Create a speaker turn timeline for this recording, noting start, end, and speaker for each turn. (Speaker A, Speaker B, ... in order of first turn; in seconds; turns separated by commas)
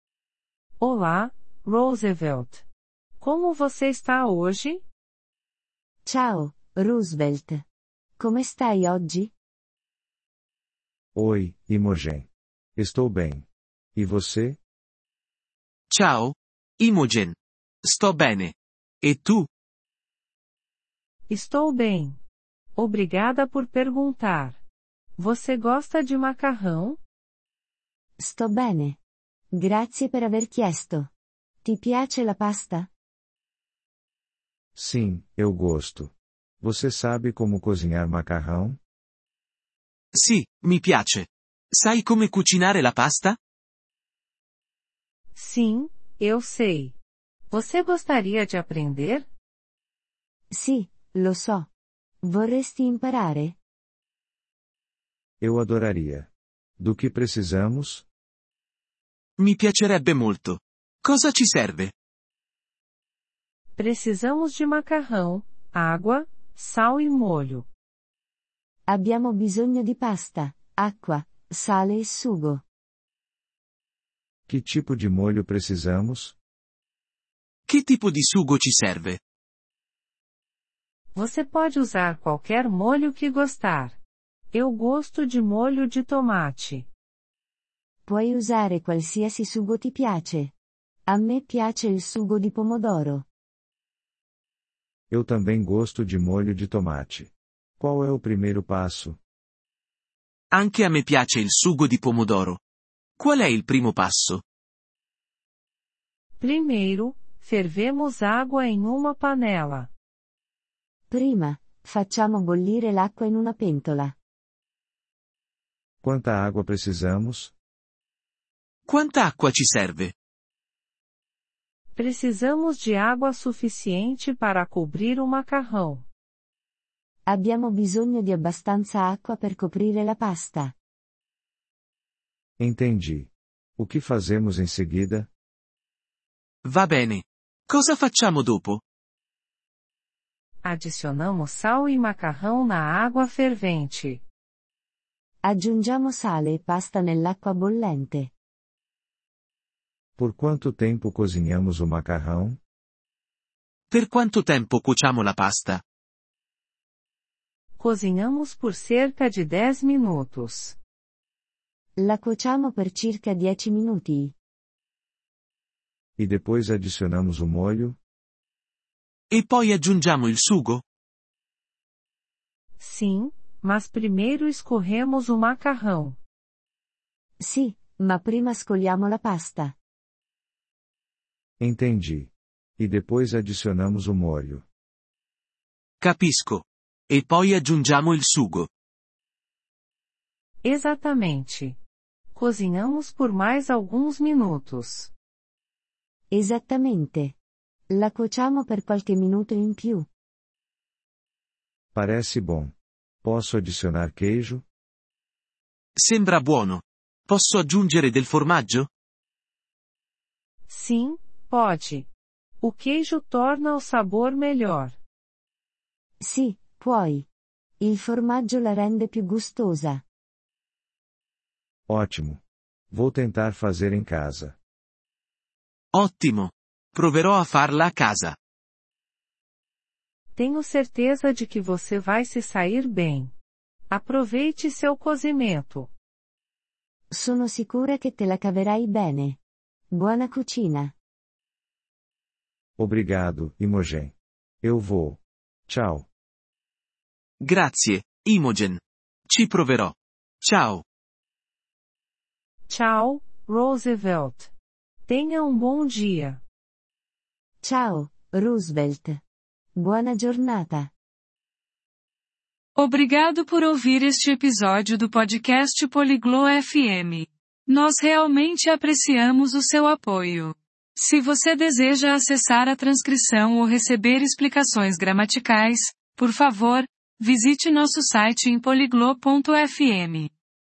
Speaker A: 0.8-2.6, Speaker A: 3.2-4.8, Speaker B: 6.1-7.6, Speaker B: 8.2-9.3, Speaker C: 11.2-14.6, Speaker D: 15.9-19.5, Speaker A: 21.3-22.2, Speaker A: 22.8-24.6, Speaker A: 25.2-27.0, Speaker B: 28.2-29.0, Speaker B: 29.6-31.1, Speaker B: 31.6-32.9, Speaker C: 34.8-38.8, Speaker D: 40.1-43.4, Speaker A: 45.4-47.0, Speaker A: 47.5-49.3, Speaker B: 50.5-51.7, Speaker B: 52.2-53.6, Speaker C: 55.4-58.0, Speaker D: 59.4-61.9, Speaker A: 63.8-67.7, Speaker B: 68.9-72.6, Speaker C: 74.5-76.4, Speaker D: 77.7-79.2, Speaker A: 81.2-84.0, Speaker A: 84.5-86.9, Speaker B: 88.1-90.5, Speaker B: 91.1-93.2, Speaker C: 95.1-99.2, Speaker D: 100.5-102.6, Speaker D: 103.2-104.4, Speaker A: 106.4-109.9, Speaker B: 111.1-114.2, Speaker C: 116.0-117.5, Speaker D: 118.9-120.1, Speaker A: 122.0-126.0, Speaker B: 127.3-130.7, Speaker C: 132.6-135.3, Speaker D: 136.7-138.8, Speaker A: 140.6-144.2, Speaker B: 145.4-148.3, Speaker C: 150.2-152.6, Speaker D: 153.9-155.8, Speaker A: 157.8-160.8, Speaker B: 162.0-164.3, Speaker C: 166.2-168.0, Speaker D: 169.3-170.8, Speaker A: 172.8-176.2, Speaker B: 177.4-179.8, Speaker C: 181.6-184.7, Speaker D: 186.0-188.7, Speaker A: 190.6-191.8, Speaker A: 192.3-195.1, Speaker B: 196.3-197.3, Speaker B: 197.9-200.1, Speaker C: 201.9-204.6, Speaker D: 206.0-208.9, Speaker A: 210.7-212.1, Speaker A: 212.6-215.0, Speaker B: 216.2-217.3, Speaker B: 217.8-220.0, Speaker C: 221.9-224.6, Speaker D: 225.9-228.4, Speaker A: 230.3-233.3, Speaker A: 233.9-235.9, Speaker B: 237.1-239.4, Speaker B: 239.9-240.9, Speaker C: 242.8-246.1, Speaker D: 247.4-250.8, Speaker A: 252.7-254.5, Speaker A: 255.1-256.4, Speaker B: 257.6-259.2, Speaker B: 259.8-260.9, Speaker E: 262.8-280.3